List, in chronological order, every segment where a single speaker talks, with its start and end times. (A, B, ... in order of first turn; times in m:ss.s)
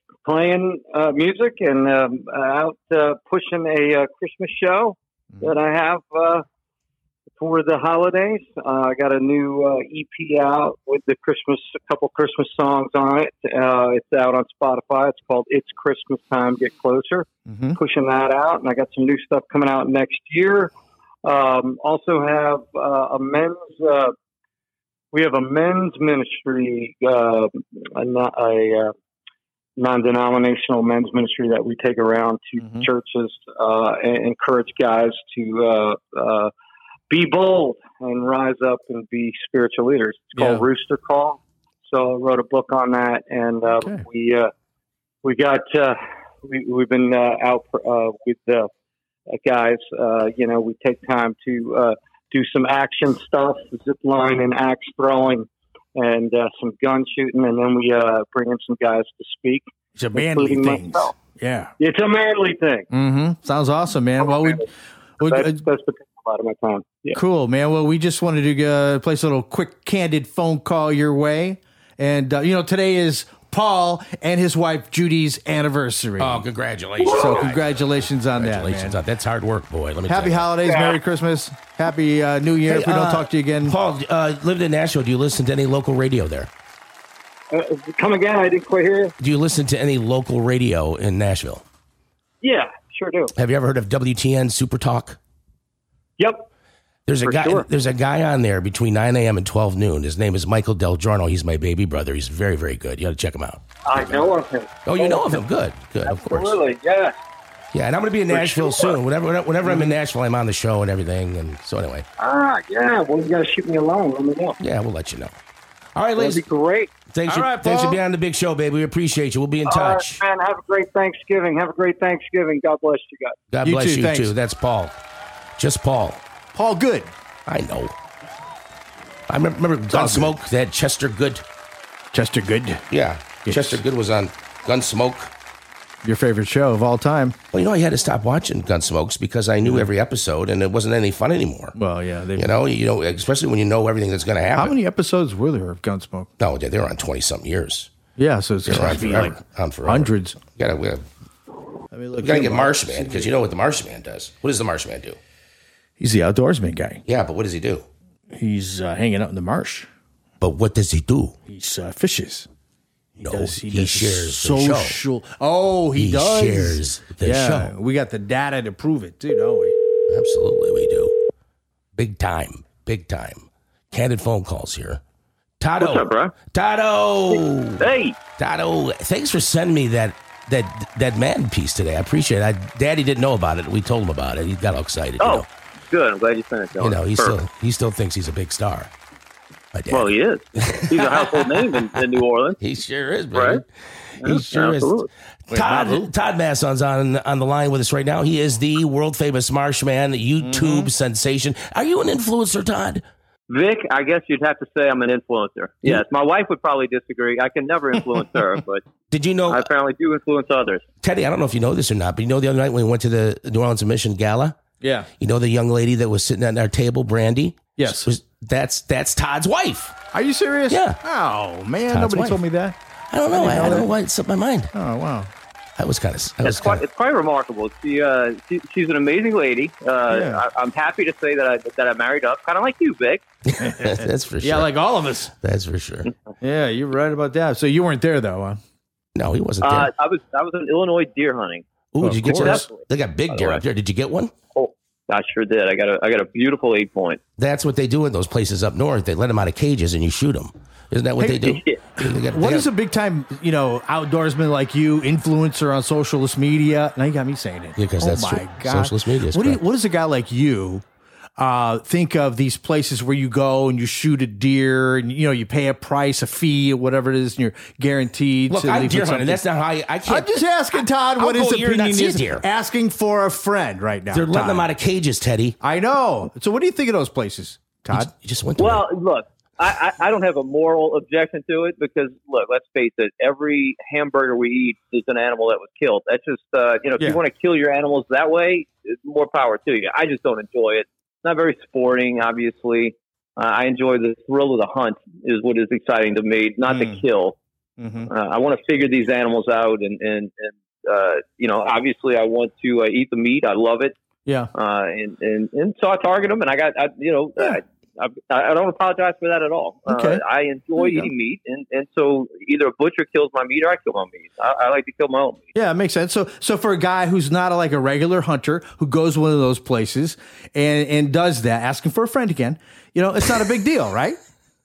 0:00.2-0:06.4 A
0:07.3-0:20.7 A
0:17.5-0:17.8 B
0:21.2-0:24.2 A
0:25.1-0:28.9 A
0:29.8-0:36.5 A
0:32.6-0:32.9 B
0:37.1-0:44.5 A
0:40.4-0:40.7 B
0:43.8-0:44.1 B
0:45.2-0:48.7 A
0:49.3-1:01.1 A
1:00.0-1:01.7 B
1:01.8-1:02.9 A
1:02.9-1:04.7 B
1:04.2-1:04.6 A
1:05.2-1:05.6 B
1:05.2-1:07.2 A
1:07.1-1:16.5 B
1:16.2-1:20.5 C
1:17.1-1:19.0 B
1:20.1-1:23.8 B
1:20.6-1:21.0 A
1:22.7-1:26.5 C
1:27.5-1:29.1 A
1:29.2-1:31.6 C
1:32.4-1:33.3 A
1:33.4-1:35.2 C
1:36.2-1:36.5 A
1:37.1-1:44.3 C
1:37.2-1:37.7 A
1:43.8-1:45.4 A
1:44.8-1:46.6 C
1:46.0-1:47.2 A
1:47.7-1:52.1 C
1:48.3-1:49.0 A
1:49.6-1:49.9 B
1:52.2-1:54.6 A
1:54.6-1:55.3 C
1:56.0-1:56.4 C
1:56.2-1:56.9 A
1:57.1-2:00.2 C
1:57.3-1:58.0 B
1:59.6-2:03.4 A
2:03.5-2:05.0 C
2:03.6-2:04.3 B
2:05.6-2:06.2 C
2:06.5-2:07.1 B
2:07.5-2:07.9 C
2:09.3-2:11.4 C
2:09.9-2:10.3 B
2:12.1-2:12.8 B
2:12.9-2:15.3 C
2:13.5-2:13.8 B
2:16.0-2:17.4 B
2:17.5-2:21.8 C
2:19.6-2:19.9 B
2:21.8-2:22.6 B
2:22.4-2:24.8 C
2:24.6-2:26.3 B
2:26.4-2:27.9 C
2:28.2-2:30.4 B
2:28.7-2:31.0 C
2:31.9-2:33.3 B
2:32.2-2:35.2 C
2:36.0-2:37.0 B
2:37.1-2:37.8 C
2:38.3-2:39.9 B
2:40.4-2:41.4 C
2:41.5-2:42.5 B
2:43.2-2:49.8 B
2:43.2-2:45.0 C
2:46.0-2:47.7 C
2:50.1-2:51.2 C
2:52.0-2:55.0 C
2:55.6-2:57.9 C
2:55.8-2:56.3 D
2:57.3-2:58.2 D
2:58.4-3:05.5 C
3:05.2-3:07.4 D
3:06.8-3:08.9 C
3:09.7-3:12.0 C
3:09.9-3:12.6 D
3:12.6-3:13.7 C
3:13.3-3:13.6 D
3:14.2-3:23.0 C
3:14.2-3:15.1 D
3:15.5-3:16.1 B
3:20.4-3:20.9 B
3:23.5-3:28.8 D
3:29.1-3:29.7 C
3:29.5-3:30.8 D
3:31.0-3:34.6 C
3:34.8-3:35.1 B
3:35.2-3:40.0 C
3:37.8-3:38.1 B
3:40.1-3:42.8 B
3:40.7-3:41.0 C
3:41.9-3:42.4 C
3:43.1-3:44.7 C
3:43.3-3:43.9 B
3:44.7-3:45.3 B
3:45.8-3:46.8 C
3:46.4-3:53.2 D
3:50.1-3:50.4 B
3:53.5-3:54.7 C
3:53.6-3:55.3 B
3:55.4-3:56.1 C
3:56.4-3:58.6 B
3:59.2-3:59.9 C
3:59.6-4:01.6 D
4:01.9-4:04.3 C
4:02.0-4:02.7 B
4:02.4-4:03.6 D
4:04.6-4:07.2 D
4:07.4-4:12.7 C
4:11.2-4:20.8 B
4:17.8-4:19.6 C
4:21.4-4:29.4 B
4:28.5-4:30.3 C
4:30.0-4:34.7 B
4:31.2-4:32.4 C
4:34.1-4:35.6 C
4:35.6-4:38.1 B
4:37.9-4:38.9 C
4:38.6-4:57.4 D
4:56.6-4:57.0 B
4:57.8-4:58.1 B
4:58.1-5:04.0 D
5:04.5-5:15.5 D
5:09.9-5:10.2 B
5:10.8-5:11.1 B
5:15.6-5:24.2 B